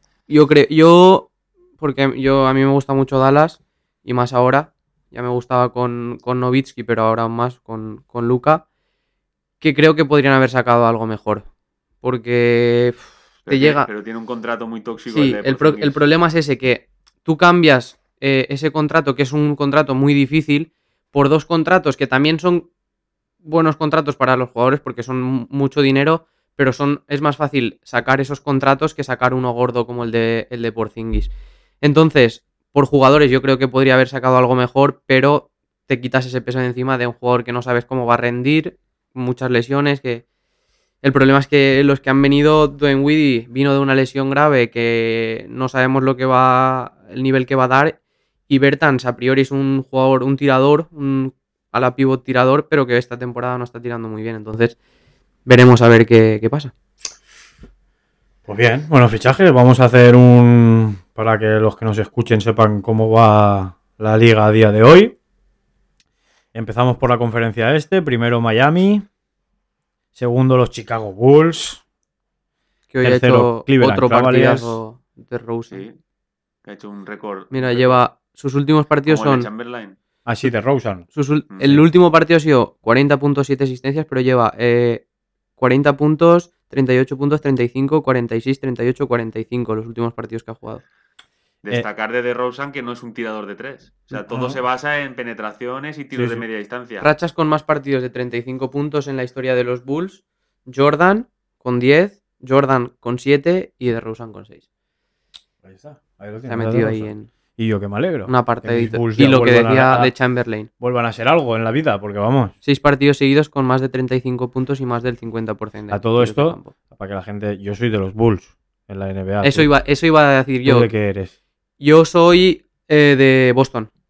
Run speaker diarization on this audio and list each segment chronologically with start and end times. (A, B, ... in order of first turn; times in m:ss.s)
0:00.3-0:08.6 A
0:09.6-0:11.5 A
0:12.0-0:13.9 A
0:13.5-0:16.0 B
0:15.1-0:22.7 A
0:23.4-0:40.2 A
0:41.0-0:48.0 A
0:48.5-0:54.8 A
0:55.5-0:56.7 A
0:58.5-1:05.2 C
1:06.5-1:09.1 C
1:10.2-1:11.8 C
1:12.9-1:15.8 A
1:13.0-1:14.8 C
1:15.7-1:16.0 B
1:16.6-1:18.0 B
1:17.5-1:19.5 A
1:19.0-1:20.0 B
1:20.3-1:21.1 C
1:21.2-1:25.0 A
1:21.5-1:21.8 B
1:25.6-1:30.8 A
1:31.6-1:37.1 B
1:34.1-1:34.6 C
1:36.1-1:36.4 C
1:37.0-1:44.6 A
1:45.6-1:50.1 C
1:46.5-1:47.3 A
1:48.3-1:50.7 A
1:50.8-1:52.5 C
1:52.6-1:56.7 A
1:55.9-1:59.7 C
1:59.4-2:00.9 A
2:00.6-2:01.3 C
2:01.8-2:03.9 A